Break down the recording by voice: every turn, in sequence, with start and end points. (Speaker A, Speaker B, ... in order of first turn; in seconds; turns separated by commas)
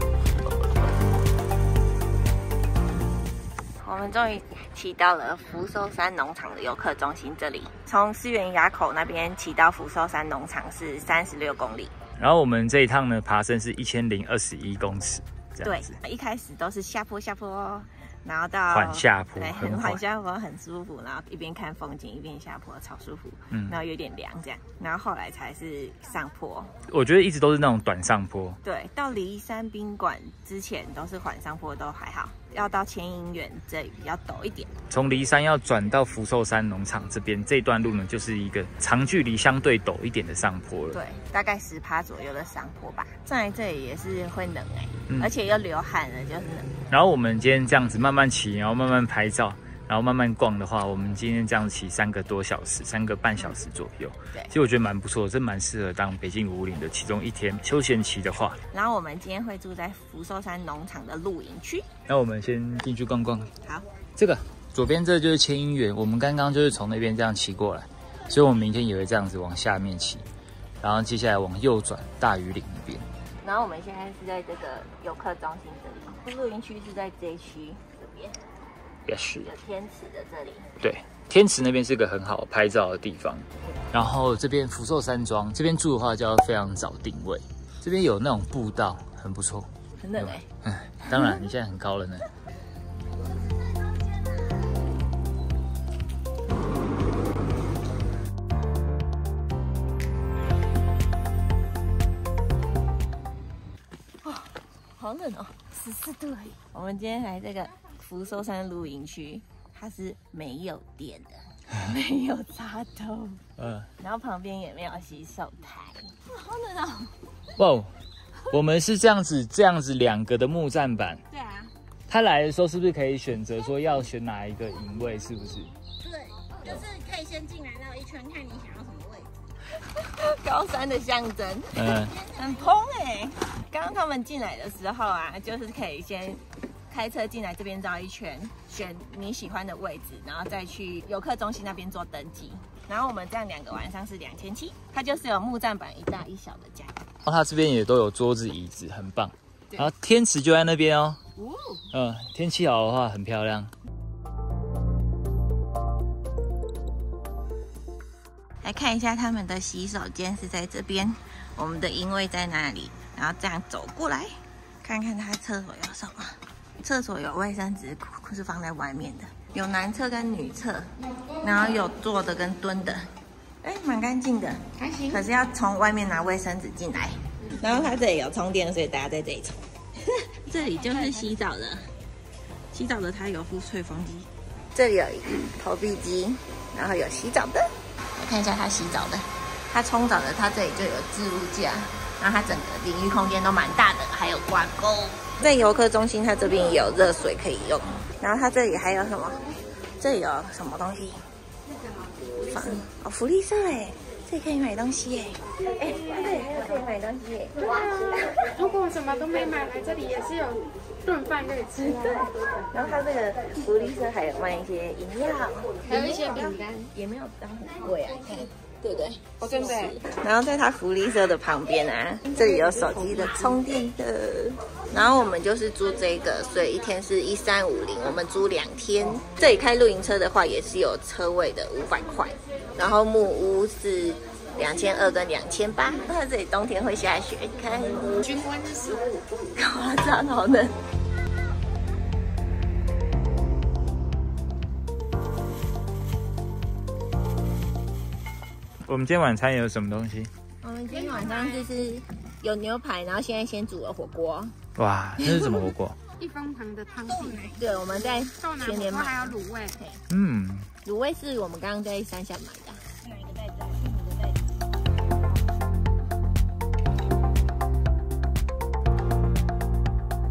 Speaker A: 3.8-11.9, Speaker B: 12.2-16.0, Speaker A: 15.6-26.7, Speaker B: 18.7-20.0, Speaker B: 23.5-23.8, Speaker B: 26.9-28.6, Speaker A: 28.6-34.7, Speaker B: 34.9-41.0, Speaker A: 40.9-46.7, Speaker B: 46.9-58.6, Speaker A: 58.7-61.9, Speaker B: 62.1-63.5, Speaker B: 64.2-70.2, Speaker B: 70.8-73.1, Speaker A: 73.4-78.4, Speaker B: 79.1-79.5, Speaker A: 79.4-80.7, Speaker B: 80.8-92.3, Speaker A: 90.0-90.5, Speaker A: 91.1-91.4, Speaker A: 104.2-113.4, Speaker B: 113.6-113.9, Speaker A: 114.0-117.1, Speaker B: 117.6-117.9, Speaker B: 118.5-121.2, Speaker A: 121.3-121.7, Speaker B: 122.1-125.7, Speaker A: 126.0-147.1, Speaker B: 131.7-132.2, Speaker B: 147.2-151.2, Speaker B: 151.9-153.7, Speaker A: 158.6-173.1, Speaker A: 173.6-179.7, Speaker A: 180.4-181.9, Speaker A: 182.7-199.4, Speaker A: 200.0-201.2, Speaker A: 202.4-208.3, Speaker C: 208.0-211.8, Speaker A: 211.7-238.8, Speaker C: 216.1-216.8, Speaker C: 238.4-239.0, Speaker A: 239.5-240.8, Speaker B: 248.9-250.3, Speaker A: 250.6-254.6, Speaker B: 254.8-256.0, Speaker A: 255.2-255.6, Speaker C: 256.2-257.4, Speaker A: 257.0-260.0, Speaker C: 258.4-259.6, Speaker B: 260.1-260.7, Speaker A: 260.9-264.4